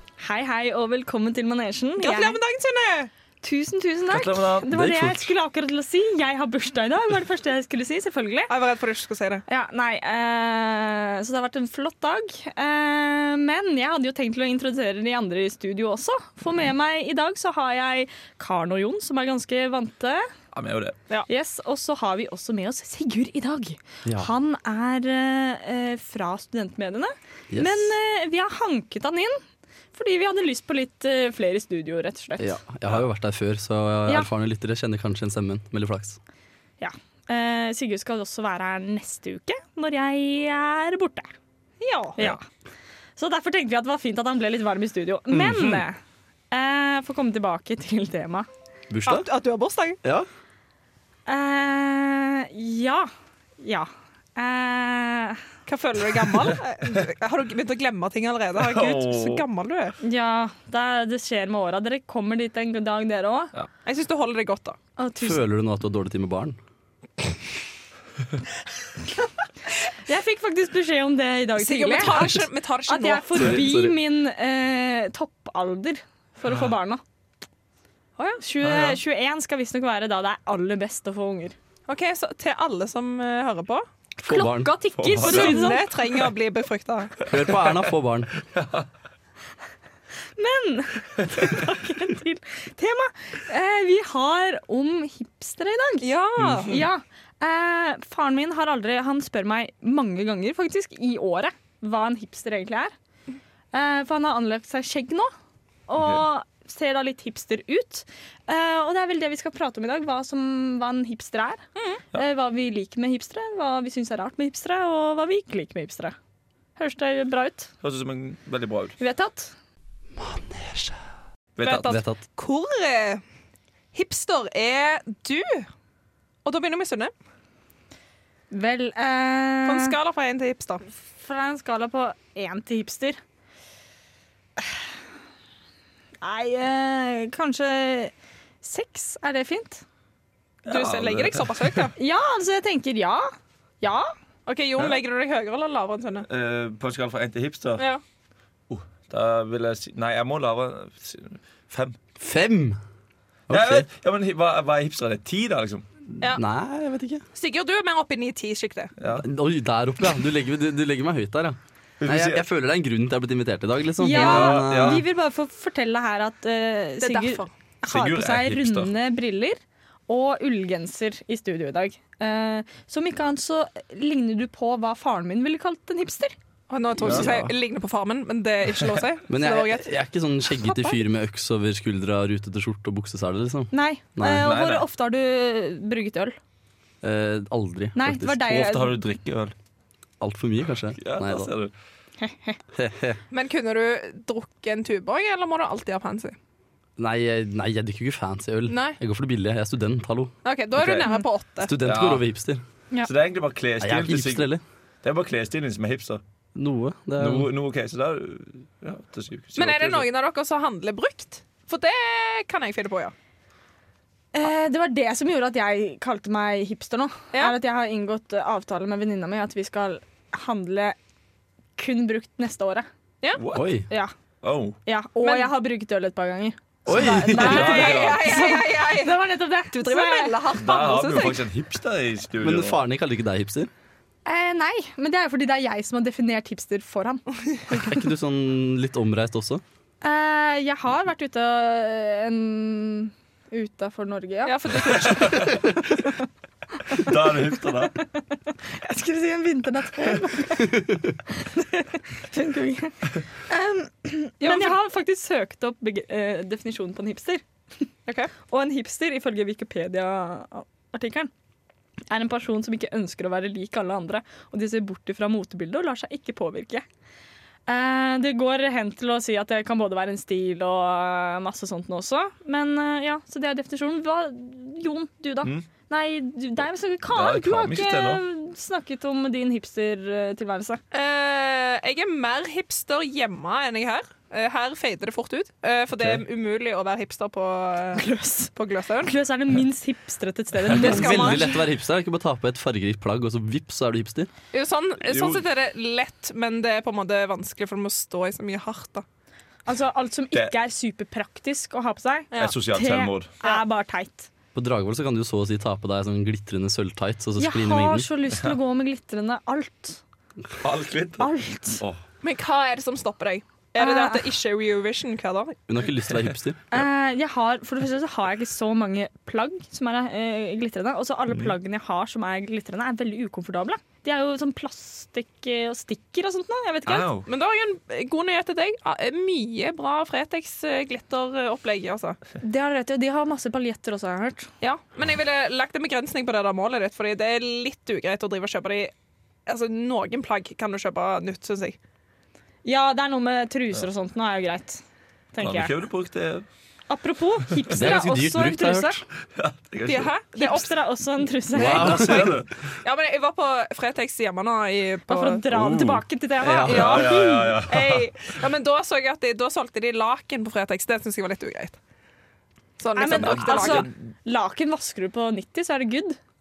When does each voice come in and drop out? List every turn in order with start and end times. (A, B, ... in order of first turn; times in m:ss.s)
0:00.2-0:02.4 A
0:02.0-0:03.1 B
0:03.4-0:08.5 A
0:04.1-0:04.7 C
0:04.6-0:05.4 D
0:08.5-0:09.4 B
0:09.5-0:20.3 A
0:20.5-0:21.0 C
0:21.3-0:29.4 A
0:24.0-0:24.3 D
0:27.5-0:28.0 D
0:29.9-0:32.6 A
0:32.4-0:36.2 D
0:36.8-0:41.3 A
0:41.8-0:42.2 B
0:42.2-0:42.4 A
0:43.2-0:46.0 A
0:45.3-0:45.8 D
0:46.5-0:48.5 A
0:48.9-0:49.3 D
0:49.1-0:50.0 B
0:50.0-0:50.3 D
0:51.3-0:55.4 A
0:55.7-1:00.0 B
0:58.6-0:59.4 C
1:00.0-1:03.5 A
1:03.8-1:04.8 B
1:05.0-1:05.4 A
1:05.2-1:06.6 D
1:09.9-1:17.0 A
1:11.6-1:13.6 B
1:12.1-1:12.4 D
1:13.3-1:14.0 D
1:18.4-1:21.6 A
1:18.6-1:19.0 C
1:21.9-1:23.8 B
1:24.2-1:25.9 A
1:24.2-1:24.8 D
1:25.0-1:25.6 C
1:25.2-1:27.4 B
1:27.3-1:28.3 D
1:28.6-1:28.8 C
1:30.4-1:36.1 A
1:36.0-1:36.7 B
1:36.4-1:36.8 C
1:36.6-1:42.9 A
1:43.7-1:45.3 A
1:45.9-1:56.2 A
1:51.8-1:52.0 B
1:56.8-1:57.7 A
1:57.8-1:59.0 C
1:59.0-1:59.5 A
2:00.1-2:01.0 D
2:01.6-2:02.0 C
2:01.6-2:03.2 B
2:01.8-2:02.2 D
2:03.9-2:05.7 B
2:06.4-2:07.1 B
2:08.5-2:10.0 A
2:09.6-2:10.8 B
2:11.2-2:13.2 A
2:14.6-2:14.8 A
2:16.2-2:19.8 A
2:20.6-2:21.9 C
2:20.7-2:22.0 B
2:22.0-2:24.1 A
2:24.5-2:26.3 B
2:26.3-2:27.9 C
2:28.7-2:32.0 C
2:32.2-2:32.8 D
2:33.5-2:33.9 D
2:33.5-2:36.0 C
2:36.3-2:37.2 D
2:37.4-2:38.9 B
2:39.0-2:39.2 C
2:39.1-2:45.0 D
2:42.0-2:42.4 C
2:44.0-2:56.4 A
2:44.2-2:45.0 C
2:47.0-2:47.5 B
2:47.8-2:48.9 C
2:56.7-2:59.9 B
2:57.0-2:57.5 D
2:59.3-3:04.5 D
3:00.5-3:01.0 B
3:03.7-3:06.4 A
3:04.4-3:04.9 C
3:07.0-3:08.6 D
3:07.9-3:09.0 A
3:08.4-3:09.6 C
3:10.2-3:11.5 D
3:11.0-3:11.7 C
3:12.2-3:12.6 A
3:12.7-3:13.2 D
3:13.3-3:16.4 B
3:17.0-3:20.3 D
3:18.7-3:19.0 B
3:20.4-3:21.8 B
3:20.8-3:21.1 C
3:21.6-3:22.6 D
3:21.8-3:22.3 C
3:23.0-3:24.5 C
3:23.8-3:24.6 D
3:25.0-3:26.2 C
3:26.6-3:27.5 D
3:27.2-3:30.1 C
3:29.6-3:33.1 B
3:34.3-3:41.0 A
3:41.8-3:42.9 A
3:43.4-3:43.8 C
3:43.5-3:43.9 D
3:44.4-3:44.8 C
3:44.9-3:50.4 A
3:45.2-3:45.5 B
3:46.9-3:47.6 D
3:46.9-3:48.6 C
3:47.2-3:49.2 B
3:49.7-3:51.5 B
3:50.6-3:52.8 C
3:52.4-3:53.7 D
3:54.3-3:57.3 A
3:57.7-3:59.6 D
4:00.0-4:05.4 A
4:04.4-4:05.7 B
4:05.0-4:05.6 C
4:06.9-4:08.0 C
4:08.6-4:17.4 A
4:14.4-4:14.8 B
4:18.4-4:21.3 A
4:22.1-4:26.8 A
4:27.7-4:40.8 A
4:37.1-4:38.2 C
4:40.9-4:49.1 B
4:46.0-4:46.2 C
4:48.0-4:48.5 A
4:49.0-4:51.6 A
4:50.7-4:51.6 B
4:50.7-4:54.3 D
4:54.5-4:59.0 B
4:55.0-4:55.4 C
4:59.7-5:04.3 A
5:02.4-5:03.3 C
5:04.6-5:08.1 D
5:07.4-5:10.0 A
5:10.6-5:12.0 C
5:11.2-5:11.8 A
5:12.2-5:15.6 B
5:13.8-5:14.3 A
5:15.7-5:16.7 D
5:16.7-5:27.1 A
5:26.9-5:27.3 C
5:27.3-5:32.2 B
5:32.4-5:34.5 A
5:34.6-5:38.9 B
5:39.5-5:41.8 B
5:42.6-5:44.8 A
5:45.3-5:45.7 A
5:45.4-5:46.5 C
5:46.9-5:49.0 A
5:47.7-5:49.1 D
5:49.4-5:50.1 C
5:49.9-5:50.8 B
5:50.4-5:52.1 A
5:51.5-5:52.4 D
5:51.6-5:52.5 C
5:51.6-5:55.4 B
5:55.1-5:57.6 A
5:55.5-5:56.0 C
5:56.4-5:57.1 D
5:56.6-5:58.1 C
5:56.6-6:01.8 B
6:02.8-6:03.9 B
6:03.0-6:06.2 A
6:03.1-6:04.0 C